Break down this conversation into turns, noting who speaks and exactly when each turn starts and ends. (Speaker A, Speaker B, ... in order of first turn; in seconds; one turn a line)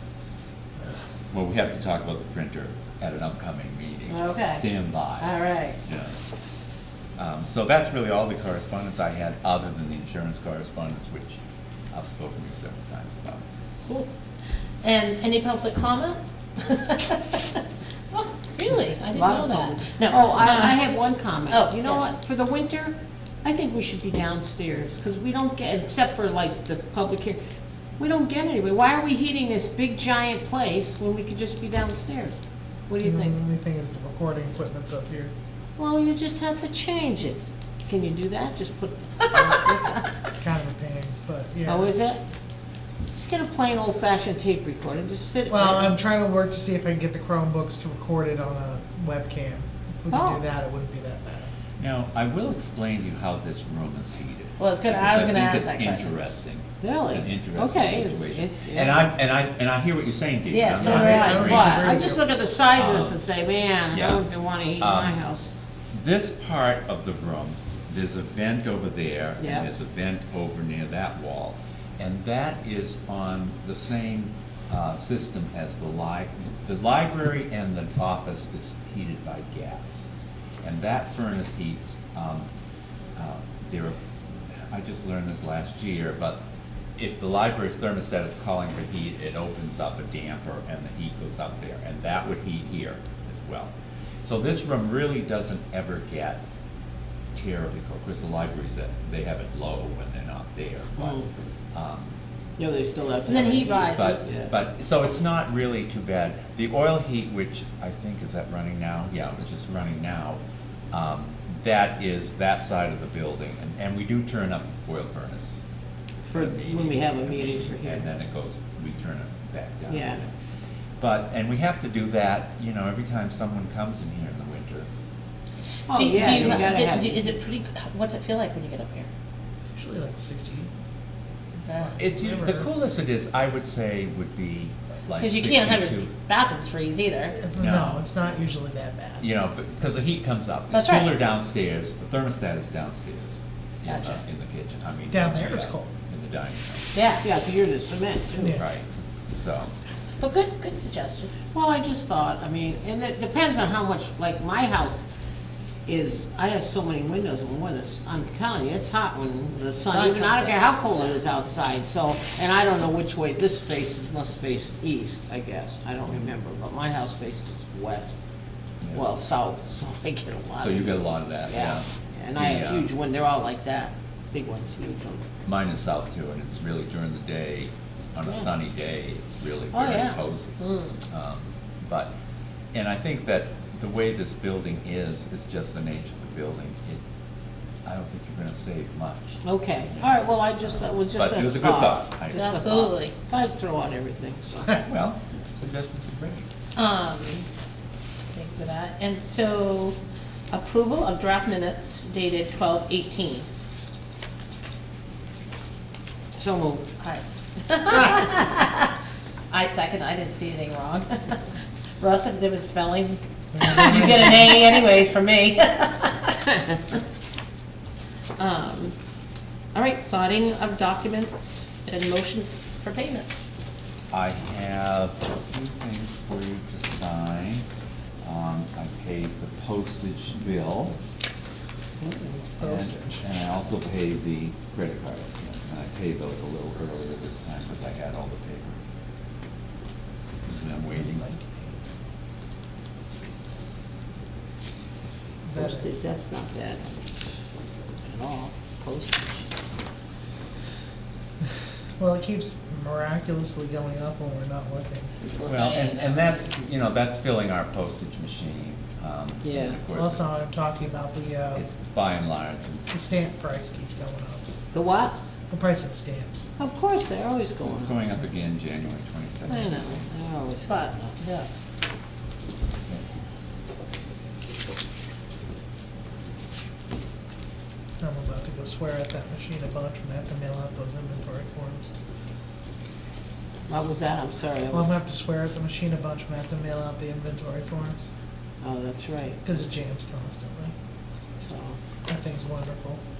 Speaker A: 1.3-6.2
Speaker B: 4.1-4.6
Speaker B: 5.2-5.8
Speaker A: 7.2-11.4
Speaker A: 11.9-13.4
Speaker B: 14.8-20.9
Speaker C: 19.1-27.4
Speaker B: 21.5-22.1
Speaker C: 28.0-32.4
Speaker C: 32.9-33.4
Speaker D: 33.0-35.3
Speaker C: 35.8-40.3
Speaker D: 40.4-42.0
Speaker C: 41.6-42.2
Speaker C: 43.1-46.0
Speaker D: 45.5-51.5
Speaker C: 50.1-50.4
Speaker A: 51.8-61.9
Speaker B: 54.6-56.1
Speaker C: 56.8-59.1
Speaker B: 60.5-62.0
Speaker D: 60.7-62.3
Speaker C: 61.3-65.5
Speaker A: 62.7-63.2
Speaker A: 63.9-64.2
Speaker A: 64.8-65.2
Speaker A: 65.9-80.1
Speaker C: 69.4-69.7
Speaker A: 80.6-82.5
Speaker A: 83.1-84.0
Speaker A: 84.7-86.4
Speaker A: 87.0-96.4
Speaker A: 97.3-101.2
Speaker C: 101.0-101.3
Speaker A: 101.7-102.2
Speaker C: 102.6-104.5
Speaker B: 103.2-104.3
Speaker A: 103.9-115.6
Speaker C: 116.2-118.1
Speaker A: 116.3-120.3
Speaker C: 119.9-120.2
Speaker A: 121.0-124.9
Speaker C: 125.9-127.3
Speaker B: 125.9-129.1
Speaker A: 126.2-126.8
Speaker D: 129.7-130.7
Speaker B: 131.7-131.9
Speaker D: 131.7-132.7
Speaker A: 132.0-136.1
Speaker B: 135.2-137.4
Speaker D: 137.3-139.3
Speaker A: 137.6-138.1
Speaker A: 139.2-146.9
Speaker B: 140.7-141.2
Speaker B: 143.9-144.2
Speaker D: 145.1-145.9
Speaker B: 146.9-147.3
Speaker C: 147.2-148.6
Speaker D: 148.4-148.6
Speaker A: 148.6-149.7
Speaker B: 150.2-151.3
Speaker C: 151.5-155.1
Speaker C: 155.8-168.2
Speaker B: 159.8-161.2
Speaker A: 168.8-169.1
Speaker C: 168.9-175.2
Speaker A: 170.6-172.9
Speaker A: 175.4-182.1
Speaker C: 179.7-180.2
Speaker B: 180.6-180.9
Speaker A: 182.7-187.0
Speaker A: 187.8-190.2
Speaker C: 189.4-194.8
Speaker A: 191.0-192.6
Speaker B: 192.3-193.1
Speaker A: 194.8-196.5
Speaker B: 196.8-197.4
Speaker B: 198.3-200.0
Speaker B: 200.5-203.4
Speaker C: 206.4-206.9
Speaker B: 207.0-208.8
Speaker B: 209.5-211.5
Speaker B: 212.0-216.3
Speaker D: 213.6-214.1
Speaker B: 218.4-218.9
Speaker B: 219.7-223.5
Speaker A: 224.1-227.7
Speaker A: 228.2-231.0
Speaker C: 232.0-232.5
Speaker D: 232.6-233.2
Speaker A: 232.6-238.8
Speaker A: 240.4-241.3
Speaker D: 240.9-241.8
Speaker D: 245.5-245.9
Speaker C: 245.5-247.1
Speaker C: 248.0-249.5
Speaker D: 252.0-255.1
Speaker C: 255.2-255.7
Speaker A: 255.4-260.3
Speaker B: 255.5-256.4
Speaker C: 259.4-259.8
Speaker D: 259.9-261.7
Speaker A: 261.5-262.9
Speaker D: 262.9-264.5
Speaker C: 264.7-265.2
Speaker D: 265.5-266.5
Speaker C: 266.6-267.9
Speaker A: 267.6-270.1
Speaker C: 269.5-271.2
Speaker B: 270.6-271.5
Speaker D: 278.0-281.9
Speaker C: 283.7-284.9
Speaker D: 284.7-288.1
Speaker C: 288.6-289.5
Speaker D: 289.4-290.7
Speaker C: 291.4-291.8
Speaker D: 292.1-293.0